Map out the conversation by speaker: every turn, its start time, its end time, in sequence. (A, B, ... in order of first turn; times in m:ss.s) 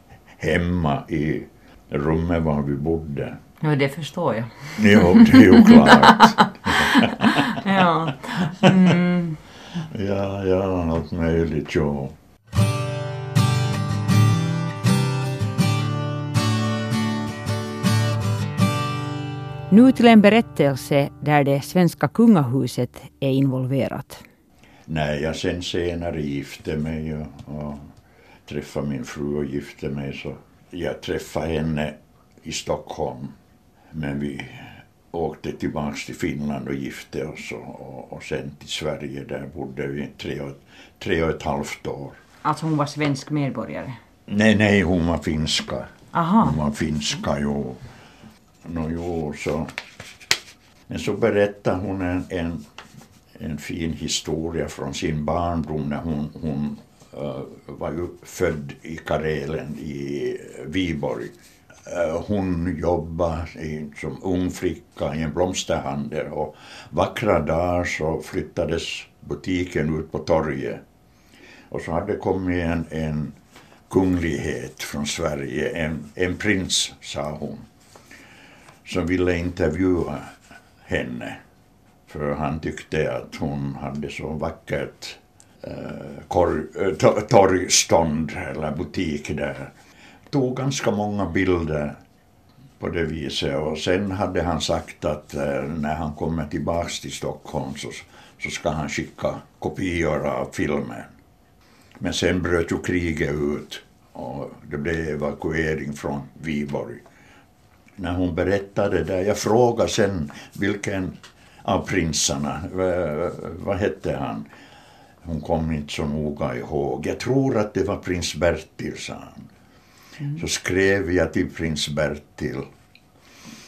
0:00.4-0:03.4 A
0:03.6-0:09.4 B
0:04.8-0:07.8 A
0:09.8-0:12.1 A
0:19.7-0:24.2 B
0:24.9-0:27.8 A
0:28.4-0:33.3 A
0:33.9-0:42.2 A
0:42.4-0:44.0 B
0:44.3-0:47.8 A
0:46.1-0:46.6 B
0:48.6-0:49.7 A
0:50.9-0:52.6 A
0:53.4-1:01.3 A
1:01.8-1:10.8 A
1:11.7-1:13.4 A
1:13.9-1:17.6 A
1:18.8-1:21.4 A
1:22.1-1:29.7 A
1:30.3-1:32.0 A
1:32.8-1:41.1 A
1:42.0-1:47.0 A
1:48.0-1:54.5 A
1:55.2-1:59.4 A
2:00.3-2:02.7 A